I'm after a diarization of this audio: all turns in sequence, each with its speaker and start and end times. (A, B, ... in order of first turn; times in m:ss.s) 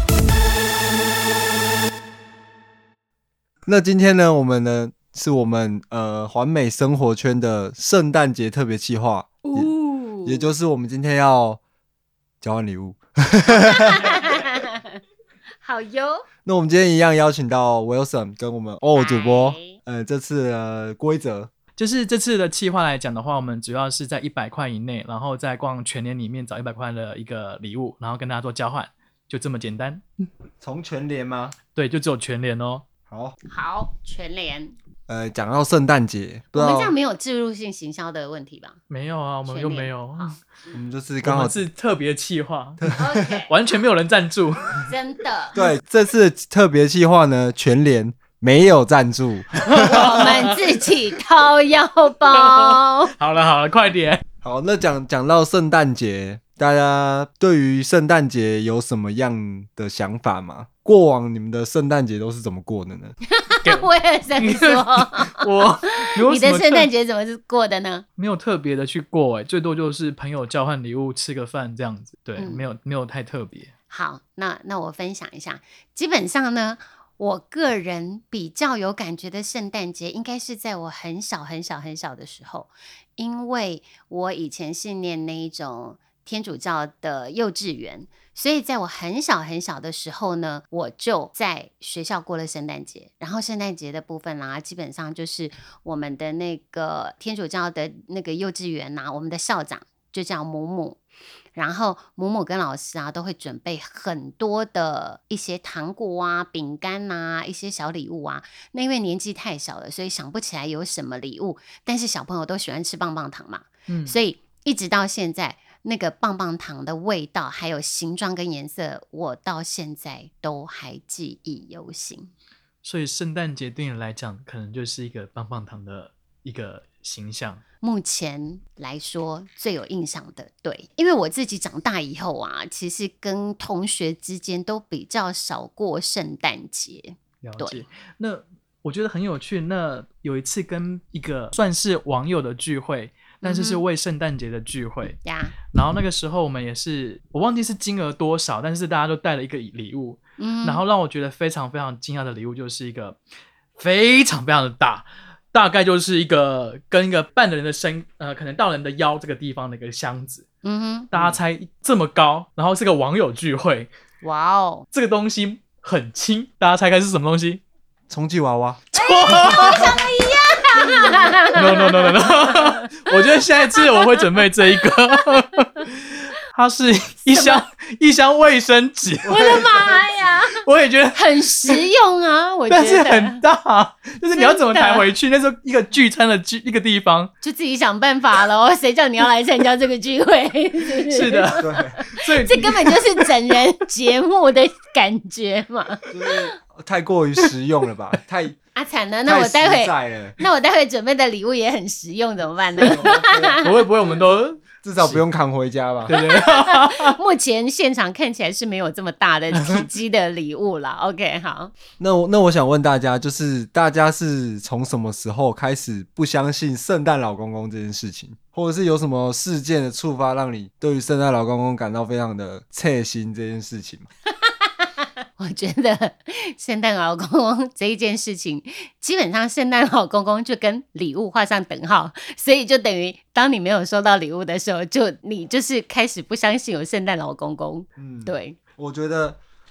0:03.7-0:09.7 A
0:09.4-0:10.6 B
0:10.2-0:11.6 A
0:12.4-0:14.1 A
0:13.5-0:14.8 B
0:15.6-0:16.2 B
0:16.4-0:21.5 A
0:19.0-0:19.8 B
0:21.8-0:30.3 C
0:30.6-0:31.6 A
0:31.7-0:32.8 C
0:33.1-0:33.4 A
0:33.5-0:34.8 B
0:35.1-0:36.9 A
0:36.5-0:38.8 B
0:38.9-0:40.4 C
0:39.5-0:40.4 B
0:40.7-0:41.6 A
0:41.2-0:42.9 C
0:42.8-0:43.2 A
0:43.0-0:43.5 B
0:43.5-0:44.8 C
0:44.8-0:45.6 B
0:45.6-0:50.3 A
0:49.6-0:50.6 C
0:49.9-0:53.1 B
0:52.3-0:54.2 C
0:54.4-1:03.2 A
1:03.3-1:05.4 B
1:03.6-1:06.9 C
1:06.0-1:08.0 B
1:08.2-1:13.7 C
1:12.4-1:12.6 B
1:13.9-1:41.0 B
1:41.6-2:02.3 B
1:53.9-1:54.2 C
2:02.8-2:07.6 C
2:07.8-2:17.8 B
2:17.4-2:33.2 C
2:23.4-2:23.8 B
2:25.2-2:25.6 B
2:30.4-2:30.8 B
2:33.8-2:40.4 C
2:40.6-2:41.1 B
2:41.1-2:43.9 C
2:44.2-2:44.9 B
2:44.9-2:47.6 C
2:48.1-2:49.7 A
2:48.9-2:50.0 C
2:49.0-2:52.8 B
2:51.6-2:59.3 C
2:53.8-2:54.4 B
2:59.3-3:00.6 B
2:59.3-2:59.6 A
3:00.6-3:01.9 C
3:01.2-3:03.4 B
3:02.7-3:07.3 C
3:04.3-3:05.1 B
3:07.4-3:16.5 B
3:11.1-3:13.6 C
3:11.6-3:12.0 A
3:16.1-3:18.6 A
3:18.8-3:23.8 B
3:19.2-3:20.4 A
3:22.8-3:23.6 A
3:23.6-3:25.2 C
3:24.8-3:26.2 A
3:26.1-3:27.2 C
3:26.1-3:31.7 B
3:29.5-3:29.9 C
3:32.0-3:44.1 A
3:45.4-3:58.6 B
3:58.0-3:59.4 A